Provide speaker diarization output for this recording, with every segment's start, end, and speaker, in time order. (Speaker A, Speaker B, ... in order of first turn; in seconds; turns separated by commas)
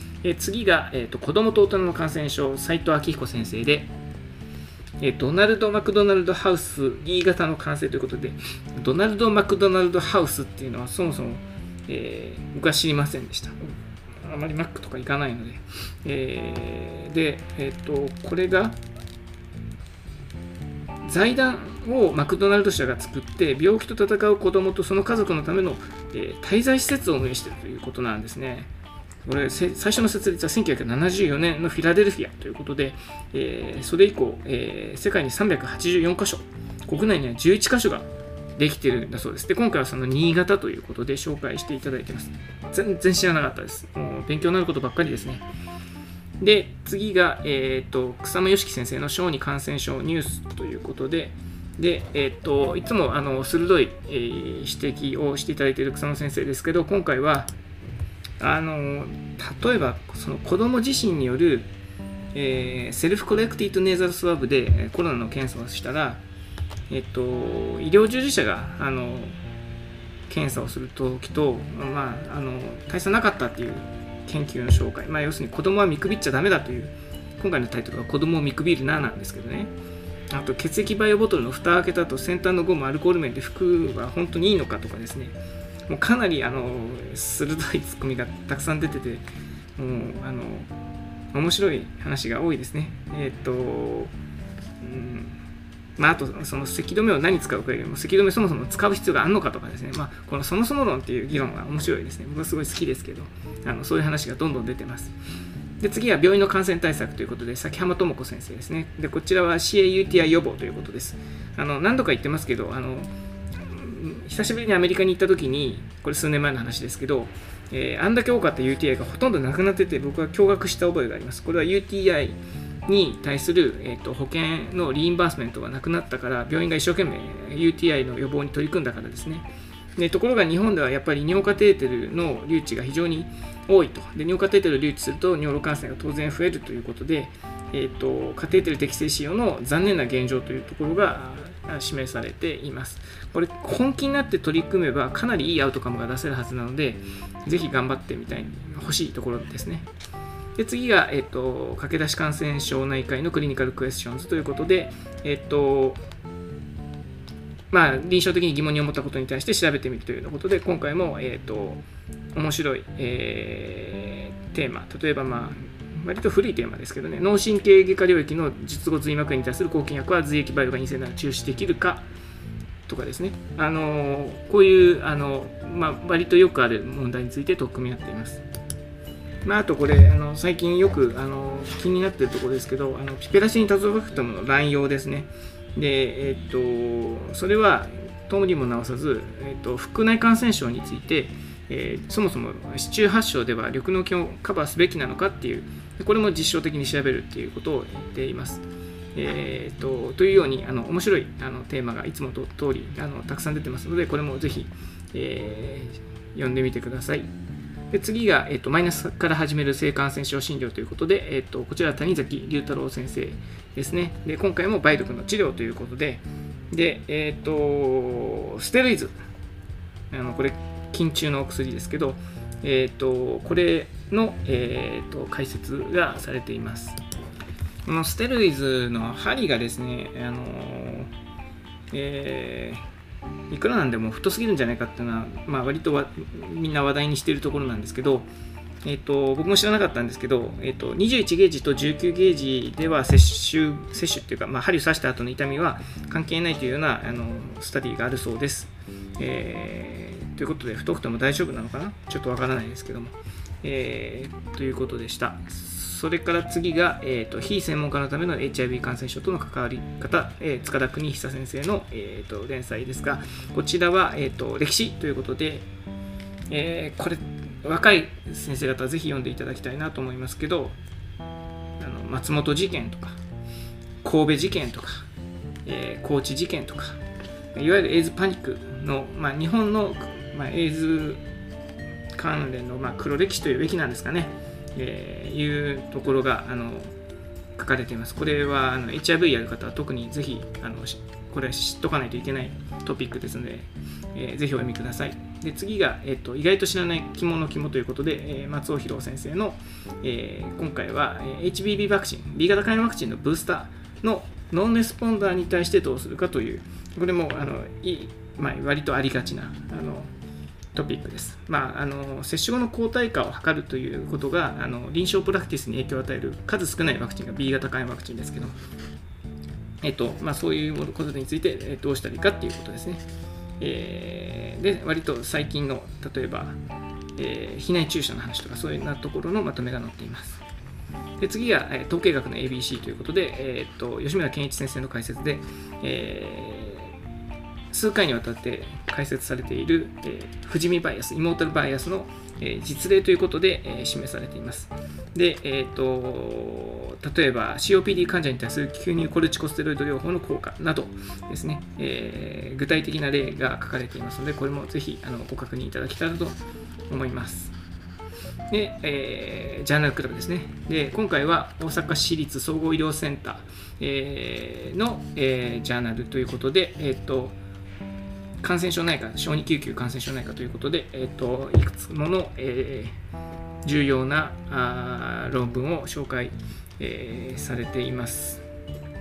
Speaker A: 0.2-3.9, Speaker A: 5.0-13.6, Speaker A: 14.2-18.8, Speaker A: 21.0-28.7, Speaker A: 29.2-45.4, Speaker A: 46.4-57.5, Speaker A: 58.4-61.7, Speaker A: 62.3-66.2, Speaker A: 66.9-69.3, Speaker A: 70.3-79.7, Speaker A: 80.3-85.4, Speaker A: 85.9-89.2, Speaker A: 89.8-90.7, Speaker A: 91.3-94.1, Speaker A: 94.8-95.4, Speaker A: 96.0-105.1, Speaker A: 105.8-113.1, Speaker A: 113.7-149.9, Speaker A: 150.6-156.0, Speaker A: 157.7-161.8, Speaker A: 162.3-172.1, Speaker A: 172.9-178.4, Speaker A: 179.4-198.6, Speaker A: 199.1-207.3, Speaker A: 207.9-219.1, Speaker A: 220.1-227.0, Speaker A: 227.8-231.1, Speaker A: 231.9-232.8, Speaker A: 233.5-238.3, Speaker A: 238.8-265.7, Speaker A: 266.5-270.8, Speaker A: 271.8-273.2, Speaker A: 274.0-275.1, Speaker A: 275.6-277.0, Speaker A: 277.5-281.2, Speaker A: 282.1-286.9, Speaker A: 287.6-310.1, Speaker A: 310.7-318.6, Speaker A: 319.8-323.0, Speaker A: 323.6-326.6, Speaker A: 327.2-330.4, Speaker A: 331.2-336.9, Speaker A: 337.7-356.4, Speaker A: 356.9-357.5, Speaker A: 358.5-367.4, Speaker A: 368.4-372.9, Speaker A: 373.6-378.4